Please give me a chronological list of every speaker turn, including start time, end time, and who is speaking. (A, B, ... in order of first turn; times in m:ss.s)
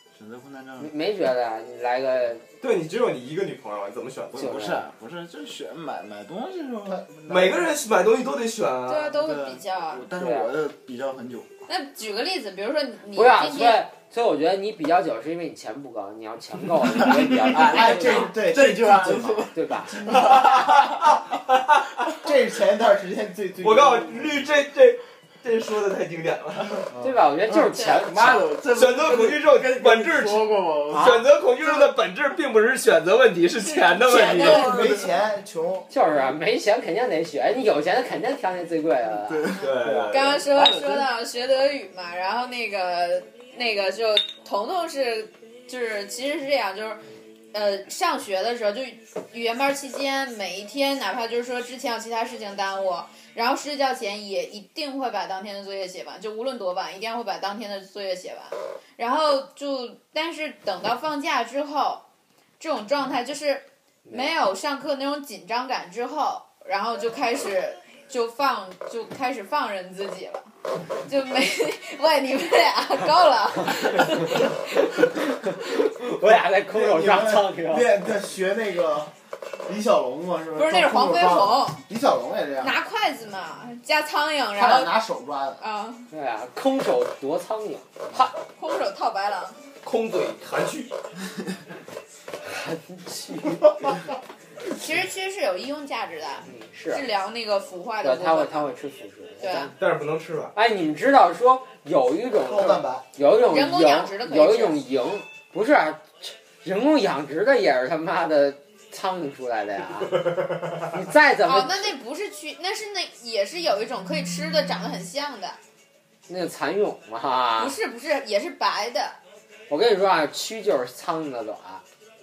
0:00.2-0:00.9 A
0:00.8-0:02.4 B
0:02.6-0:04.5 C
0:04.3-0:07.6 A
0:04.4-0:04.8 B
0:07.3-0:09.1 C
0:08.9-0:10.1 D
0:09.1-0:11.5 A
0:10.2-0:10.5 B
0:11.7-0:13.8 D
0:13.1-0:18.4 B
0:17.0-0:20.6 A
0:17.2-0:20.7 E
0:19.4-0:20.1 B
0:20.1-0:22.2 C
0:22.2-0:24.4 E
0:23.6-0:26.9 C
0:26.9-0:27.2 E
0:27.0-0:28.5 B
0:27.5-0:31.2 A
0:27.7-0:28.0 D
0:28.7-0:34.7 C
0:30.9-0:31.2 B
0:33.6-0:34.9 D
0:34.1-0:35.1 A
0:34.4-0:35.9 E
0:35.9-0:40.7 B
0:39.2-0:39.7 A
0:39.6-0:40.5 C
0:40.1-0:47.0 D
0:40.5-0:41.1 A
0:47.5-1:02.0 D
1:02.6-1:10.5 D
1:04.0-1:04.4 B
1:11.0-1:14.6 D
1:13.8-1:17.9 B
1:16.7-1:22.8 E
1:20.6-1:21.8 D
1:22.6-1:24.9 D
1:24.6-1:25.6 E
1:25.6-1:26.1 D
1:26.1-1:28.3 B
1:28.5-1:29.6 D
1:29.8-1:31.0 C
1:32.4-1:33.9 B
1:34.7-1:38.7 D
1:36.4-1:37.1 B
1:38.0-1:39.8 B
1:39.4-1:39.7 D
1:39.8-1:40.6 C
1:40.6-1:50.3 B
1:42.5-1:43.0 E
1:43.5-1:44.8 D
1:50.1-1:51.0 C
1:50.8-1:51.9 B
1:51.4-1:55.6 D
1:56.3-1:57.8 B
1:57.6-1:59.2 D
1:59.7-2:01.8 B